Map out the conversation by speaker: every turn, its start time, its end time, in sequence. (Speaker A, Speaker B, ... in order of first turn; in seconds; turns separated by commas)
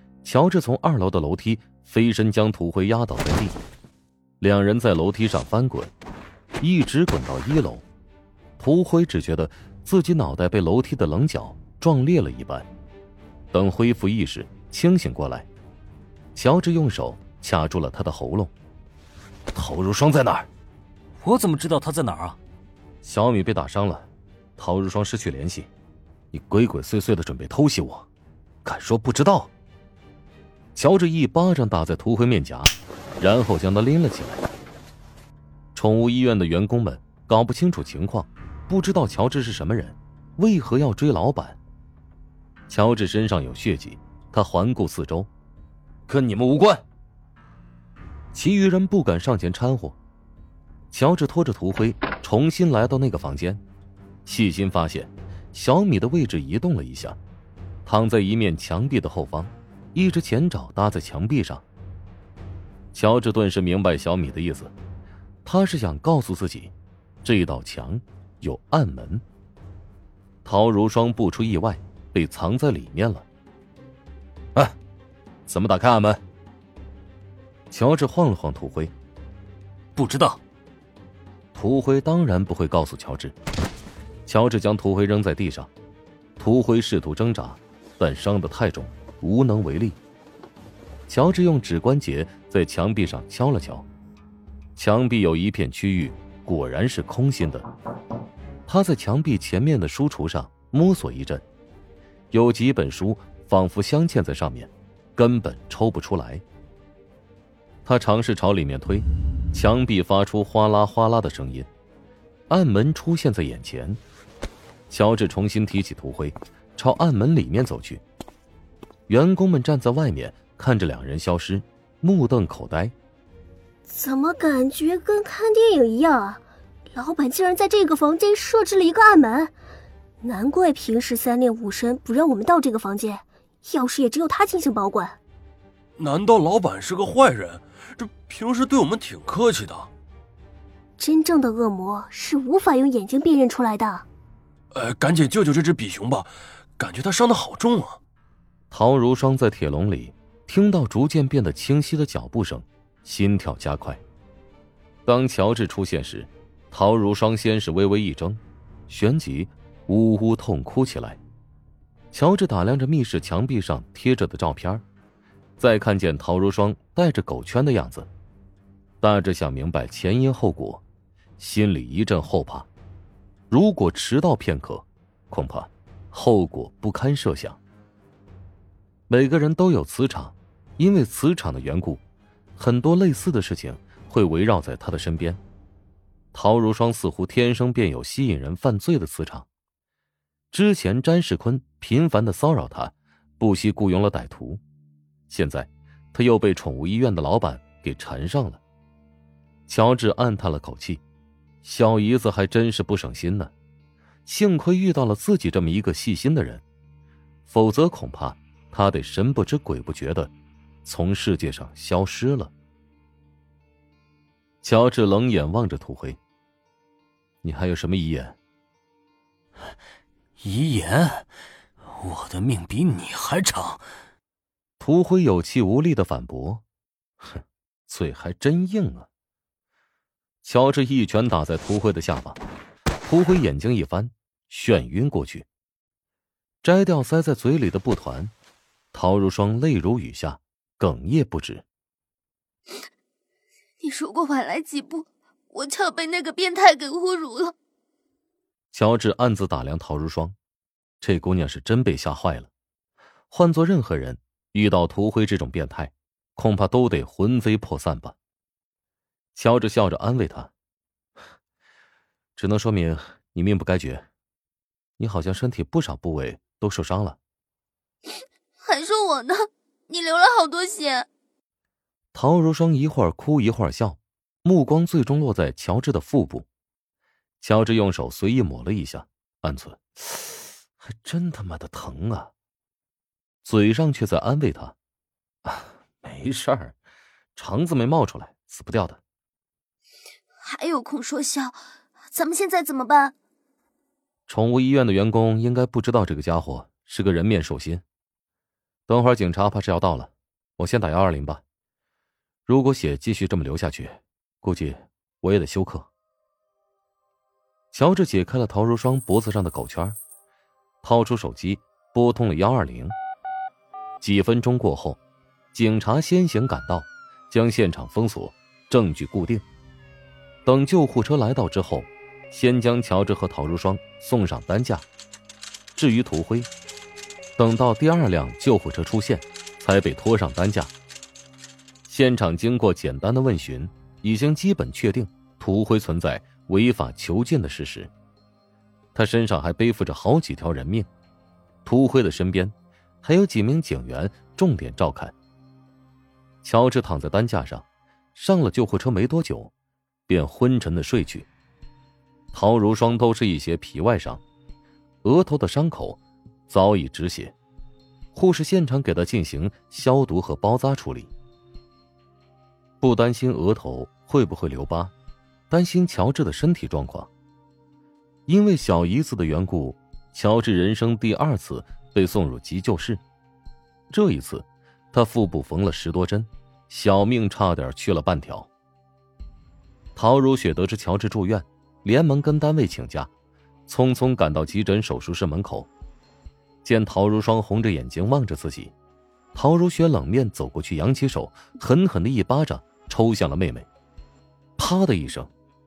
Speaker A: 0.2-3.6, Speaker A: 4.4-5.9, Speaker A: 6.6-7.8, Speaker A: 8.6-12.7, Speaker A: 13.5-15.5, Speaker A: 16.4-18.5, Speaker A: 19.5-20.5, Speaker B: 21.2-22.4, Speaker A: 23.0-25.7, Speaker A: 26.3-28.1, Speaker A: 28.6-29.5, Speaker A: 30.8-34.5, Speaker A: 35.8-41.6, Speaker A: 42.7-45.3, Speaker A: 46.1-46.8, Speaker A: 48.3-50.0, Speaker A: 50.9-53.6, Speaker A: 54.3-57.2, Speaker A: 57.9-61.6, Speaker A: 62.9-64.7, Speaker A: 65.5-66.7, Speaker A: 67.2-69.2, Speaker A: 70.5-73.2, Speaker A: 75.5-76.2, Speaker A: 77.7-78.9, Speaker B: 80.0-80.4, Speaker A: 81.5-83.3, Speaker A: 84.3-85.7, Speaker A: 86.4-90.0, Speaker A: 91.1-93.9, Speaker A: 94.8-97.7, Speaker A: 98.7-101.5, Speaker A: 102.3-106.4, Speaker A: 107.8-111.7, Speaker A: 112.5-114.0, Speaker A: 114.9-118.0, Speaker A: 119.1-122.9, Speaker C: 123.9-126.4, Speaker C: 126.9-129.5, Speaker C: 130.2-135.2, Speaker D: 136.0-139.9, Speaker C: 141.0-144.1, Speaker D: 144.7-148.0, Speaker A: 148.7-154.0, Speaker A: 155.1-161.2, Speaker A: 162.1-164.8, Speaker A: 165.6-168.1, Speaker A: 169.0-170.8, Speaker A: 171.4-172.7, Speaker A: 173.5-177.6, Speaker A: 179.1-182.0, Speaker A: 182.6-185.4, Speaker A: 186.3-189.5, Speaker A: 190.5-194.6, Speaker A: 195.3-198.6, Speaker A: 199.7-201.0, Speaker A: 201.6-203.5, Speaker A: 204.3-206.6, Speaker A: 207.5-210.3, Speaker A: 210.8-212.5, Speaker A: 214.6-216.2, Speaker A: 217.4-218.4, Speaker B: 220.4-221.3, Speaker B: 222.0-223.8, Speaker A: 224.8-226.6, Speaker A: 227.3-229.1, Speaker A: 230.4-232.4, Speaker A: 233.0-235.5, Speaker A: 236.6-238.3, Speaker A: 238.9-241.7, Speaker E: 243.8-247.6, Speaker A: 248.7-250.4, Speaker A: 251.0-252.5, Speaker A: 253.3-258.2, Speaker A: 259.4-260.5, Speaker A: 262.4-264.1, Speaker A: 265.0-267.2, Speaker E: 268.6-271.1, Speaker A: 272.1-276.5, Speaker A: 277.4-282.3, Speaker A: 283.4-284.8, Speaker A: 285.4-286.8, Speaker A: 287.4-289.0, Speaker E: 290.4-291.6, Speaker E: 292.1-293.1, Speaker A: 294.3-297.8, Speaker A: 298.9-301.4, Speaker A: 302.5-305.9, Speaker A: 307.7-310.0, Speaker A: 310.8-312.9, Speaker A: 314.0-315.0, Speaker A: 315.5-319.4, Speaker A: 320.5-324.9, Speaker A: 325.8-326.5, Speaker A: 327.4-330.7, Speaker A: 331.9-337.9, Speaker A: 338.9-340.9, Speaker A: 341.6-345.1, Speaker A: 346.4-349.5, Speaker A: 350.1-351.3, Speaker A: 352.3-354.2, Speaker A: 355.0-357.4, Speaker A: 358.1-361.1, Speaker A: 362.8-364.9, Speaker A: 365.5-367.1, Speaker A: 368.3-373.0, Speaker A: 373.9-378.5, Speaker A: 380.0-383.1, Speaker A: 383.7-385.7, Speaker A: 386.6-388.7, Speaker A: 389.3-393.7, Speaker A: 394.6-395.3